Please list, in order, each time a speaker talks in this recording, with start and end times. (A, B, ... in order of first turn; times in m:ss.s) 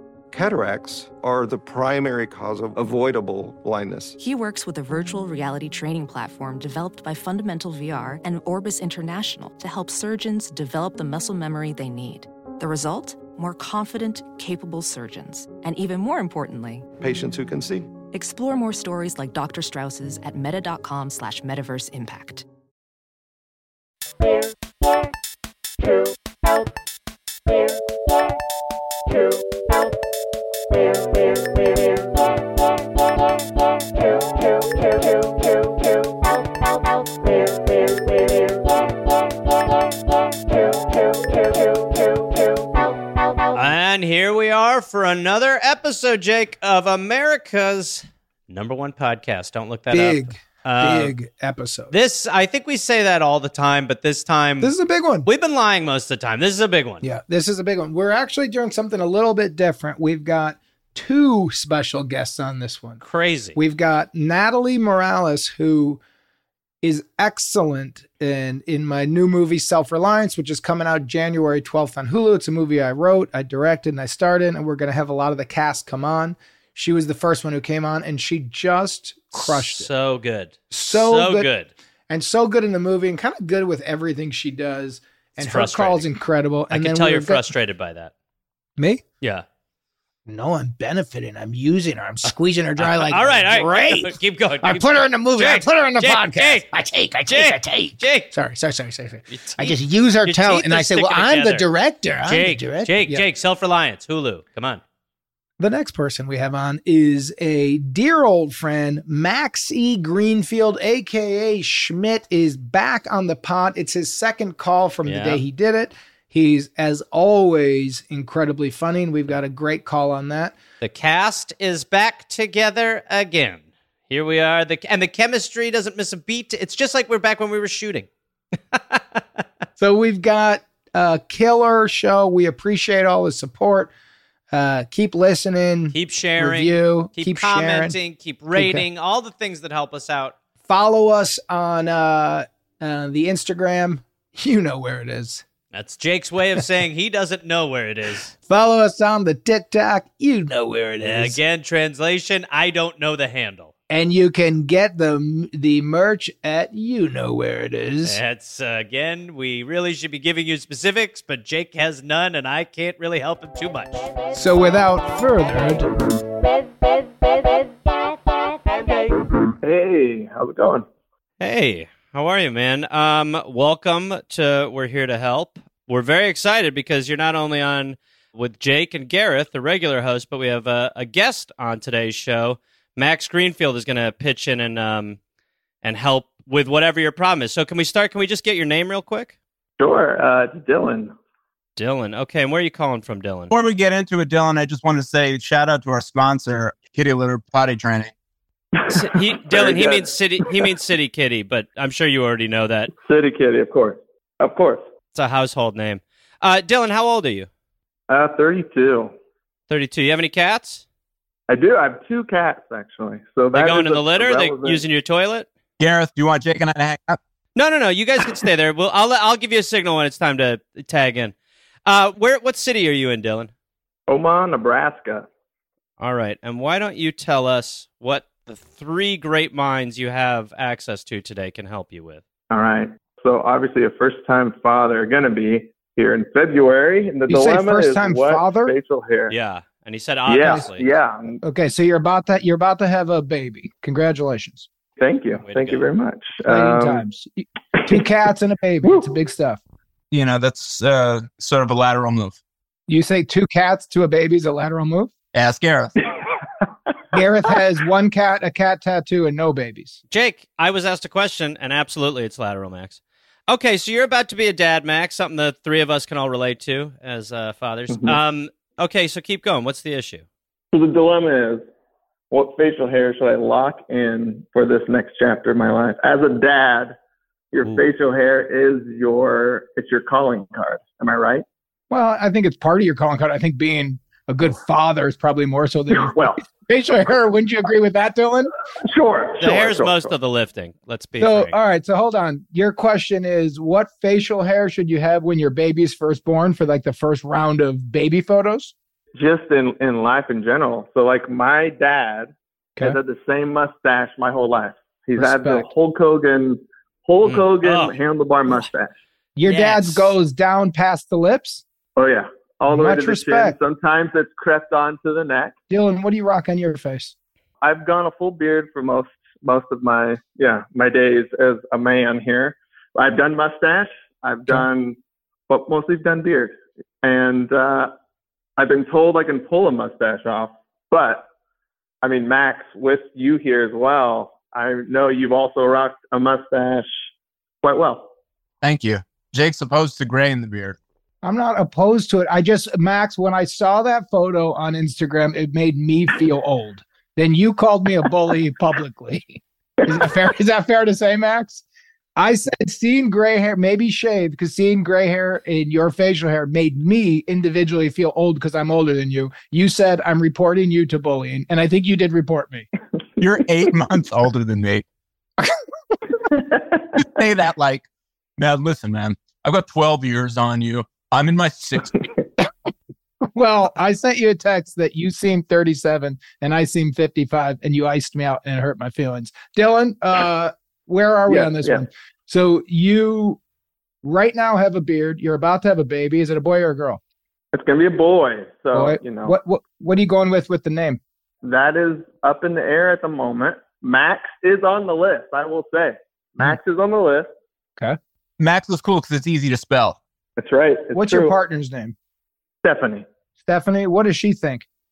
0:00.3-0:04.2 A
0:04.2-0:16.9 B
0:17.0-0:17.9 A
0:18.1-0:22.4 B
0:43.5-0:51.1 C
0:49.9-0:51.9 D
0:51.9-0:54.7 C
0:54.6-0:55.3 D
0:55.2-0:57.0 C
0:57.0-1:03.0 D
1:03.0-1:03.6 C
1:03.5-1:06.0 D
1:06.8-1:19.9 D
1:19.3-1:21.7 C
1:20.7-1:21.5 D
1:22.1-1:27.5 D
1:25.4-1:26.0 C
1:26.7-1:28.1 C
1:28.8-1:29.0 D
1:30.3-1:43.2 D
1:32.8-1:36.7 C
1:37.3-1:38.3 C
1:39.3-1:41.7 C
1:42.2-1:44.8 C
1:45.6-2:00.6 D
1:55.0-1:55.4 C
2:00.8-2:08.1 C
2:08.7-2:09.2 C
2:09.8-2:13.9 D
2:14.5-2:18.0 D
2:15.9-2:20.3 C
2:18.6-2:18.8 D
2:20.6-2:25.4 D
2:25.7-2:28.3 C
2:28.5-2:31.4 D
2:31.0-2:33.7 C
2:33.9-2:38.2 D
2:38.0-2:44.1 C
2:44.3-2:45.9 D
2:49.6-2:50.8 E
2:51.4-3:05.2 C
3:05.8-3:09.3 C
3:09.8-3:11.1 E
3:11.8-3:13.5 C
3:13.5-3:18.1 F
3:18.8-3:20.1 E
3:18.9-3:22.9 C
3:23.0-3:24.8 E
3:25.1-3:27.5 C
3:28.1-3:29.1 E
3:29.7-3:30.8 C
3:31.5-3:34.8 E
3:33.5-3:35.5 C
3:35.8-3:37.2 F
3:37.6-3:41.3 C
3:41.8-3:43.5 C
3:44.1-3:45.3 E
3:46.0-3:52.2 C
3:52.5-3:59.3 E
3:57.3-3:58.7 D
3:59.3-4:00.9 C
4:00.3-4:01.4 E
4:01.4-4:04.7 D
4:05.0-4:07.0 E
4:05.4-4:05.8 C
4:06.4-4:09.6 D
4:08.8-4:09.1 E
4:10.1-4:12.4 F
4:12.9-4:15.1 D
4:15.3-4:15.9 F
4:17.1-4:20.0 D
4:20.1-4:30.2 C
4:30.7-4:31.6 E
4:32.3-4:37.0 E
4:37.5-4:41.4 E
4:41.9-4:48.5 D
4:45.9-4:46.4 E
4:48.9-4:50.1 E
4:49.4-4:51.5 C
4:51.2-4:58.7 D
4:59.2-5:08.9 E
5:05.2-5:05.6 D
5:07.2-5:07.9 C
5:09.4-5:11.6 D
5:09.4-5:10.1 C
5:12.0-5:15.5 E
5:12.7-5:13.6 D
5:15.7-5:17.1 D
5:17.6-5:25.0 E
5:25.5-5:27.9 E
5:28.6-5:31.3 E
5:32.0-5:37.0 E
5:37.6-5:38.1 E
5:38.6-5:40.8 F
5:41.2-5:51.6 D
5:52.2-6:02.7 D
6:03.2-6:04.8 F
6:07.0-6:07.8 F
6:08.4-6:11.9 F
6:13.3-6:23.4 D
6:21.3-6:21.8 E
6:24.0-6:27.0 D
6:27.5-6:29.4 E
6:28.7-6:31.0 D
6:31.4-6:37.3 E
6:38.4-6:40.0 F
6:40.4-6:41.3 E
6:40.9-6:41.9 D
6:42.6-6:43.0 E
6:43.4-6:44.6 D